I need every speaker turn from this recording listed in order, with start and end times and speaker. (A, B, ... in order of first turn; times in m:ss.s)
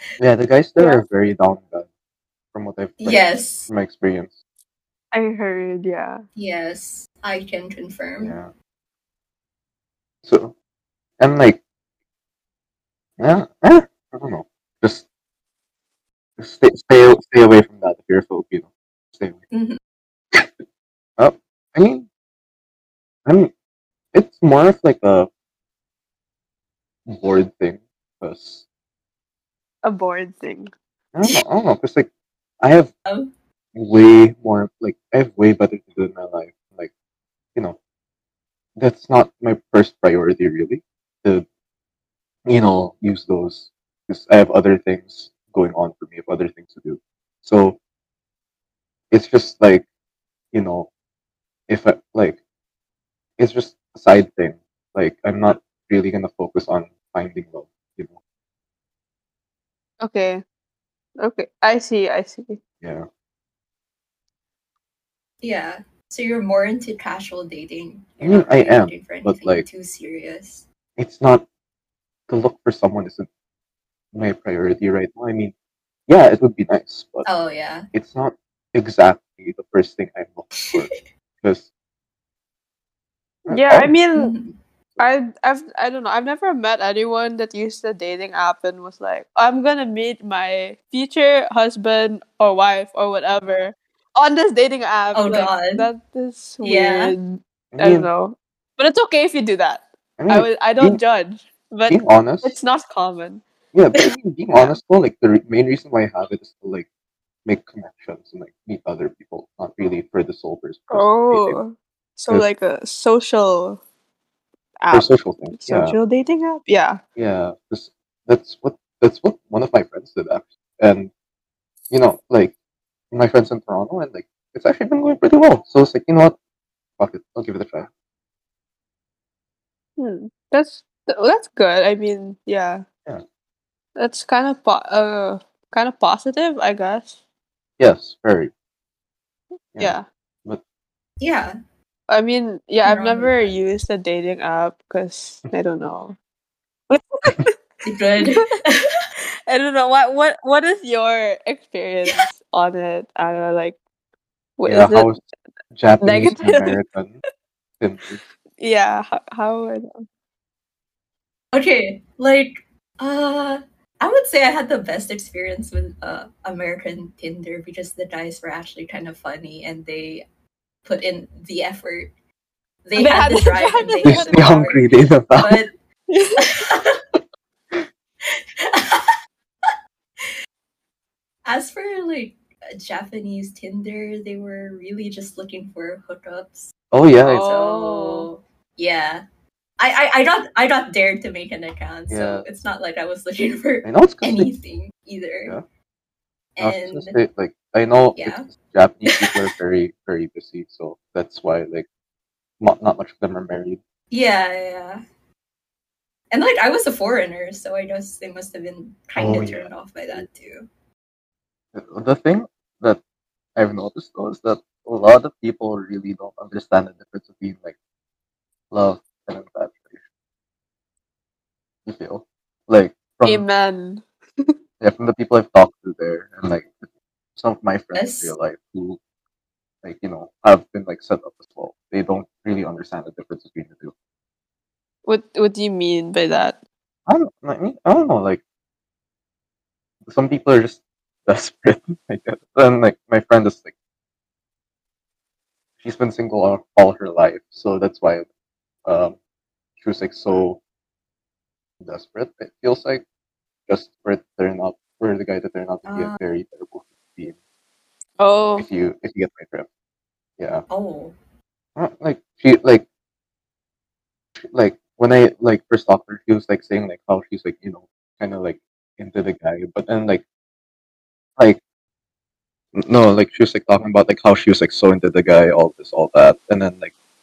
0:00.2-0:01.9 A
0:00.8-0:01.0 B
0:02.5-0:04.3 A
0:03.0-0:03.7 C
0:05.1-0:06.2 B
0:06.4-0:08.3 C
0:08.2-0:08.5 A
0:10.2-0:10.5 A
0:11.2-0:11.6 A
0:13.2-0:15.1 A
0:16.4-0:19.4 A
0:19.5-0:19.8 C
0:21.2-0:22.1 A
0:23.2-0:23.5 A
0:24.1-0:25.3 A
0:27.1-0:28.6 A
0:29.8-0:30.7 B
0:31.1-0:32.1 A
0:32.6-0:32.9 A
0:33.1-0:33.3 C
0:33.8-0:36.9 A
0:38.8-0:41.4 A
0:42.5-0:47.8 A
0:49.1-0:49.8 A
0:50.5-0:50.9 A
0:51.7-0:52.4 A
0:53.4-0:58.2 A
1:00.0-1:00.4 B
1:01.2-1:02.6 B
1:02.8-1:03.1 A
1:05.4-1:10.6 C
1:08.2-1:09.6 A
1:11.0-1:11.4 A
1:12.3-1:13.3 A
1:14.1-1:15.5 A
1:16.1-1:17.3 A
1:17.2-1:17.9 C
1:17.9-1:21.7 A
1:20.6-1:21.0 C
1:23.4-1:23.9 A
1:23.5-1:24.3 B
1:24.1-1:24.6 C
1:25.0-1:43.4 B
1:35.1-1:35.9 C
1:36.6-1:37.1 C
1:37.7-1:38.1 A
1:40.2-1:41.0 A
1:41.8-1:42.6 A
1:43.7-1:46.9 A
1:47.4-1:51.6 A
1:50.9-1:53.8 B
1:54.8-1:57.0 B
1:54.9-1:56.0 A
1:57.2-2:01.1 A
2:01.9-2:02.5 A
2:03.1-2:06.4 A
2:07.0-2:07.9 A
2:10.0-2:12.8 B
2:14.0-2:17.2 B
2:17.8-2:18.5 A
2:19.7-2:20.6 A
2:19.8-2:20.1 B
2:21.2-2:21.5 C
2:22.1-2:26.2 B
2:22.8-2:23.6 C
2:26.9-2:27.6 B
2:27.8-2:29.1 C
2:29.5-2:33.8 B
2:34.6-2:35.1 B
2:34.7-2:35.2 A
2:35.7-2:37.1 A
2:36.0-2:36.8 B
2:37.8-2:38.2 A
2:38.6-2:40.0 B
2:41.5-2:50.2 C
2:50.8-2:52.1 C
2:52.8-2:55.7 C
2:53.0-2:54.5 B
2:54.0-2:55.7 A
2:56.1-2:56.5 B
2:56.4-2:57.0 C
2:58.2-2:59.1 C
2:59.7-3:00.3 C
3:01.4-3:06.7 C
3:06.9-3:07.5 A
3:07.2-3:09.2 C
3:07.3-3:08.3 B
3:09.8-3:15.6 C
3:12.1-3:12.4 A
3:13.8-3:14.5 A
3:16.6-3:17.2 C
3:16.6-3:21.9 A
3:18.1-3:18.5 C
3:19.1-3:19.4 C
3:22.6-3:23.8 A
3:24.1-3:25.0 C
3:26.3-3:30.7 C
3:29.2-3:30.2 A
3:31.7-3:33.0 A
3:33.6-3:37.8 A
3:38.7-3:40.0 A
3:41.8-3:43.4 A
3:43.2-3:44.6 B
3:44.8-3:49.0 A
3:47.9-3:48.3 C
3:49.8-3:53.9 A
3:55.0-3:56.6 B
3:57.1-3:58.4 A
4:00.1-4:03.7 A
4:05.8-4:08.3 A
4:08.8-4:09.2 A
4:09.8-4:10.6 A
4:11.8-4:13.0 A
4:13.7-4:17.3 A
4:15.8-4:16.2 C
4:18.2-4:18.7 B
4:18.6-4:19.7 A
4:20.4-4:20.6 A
4:20.7-4:21.2 C
4:21.8-4:22.8 A
4:24.5-4:30.2 A
4:32.7-4:36.9 A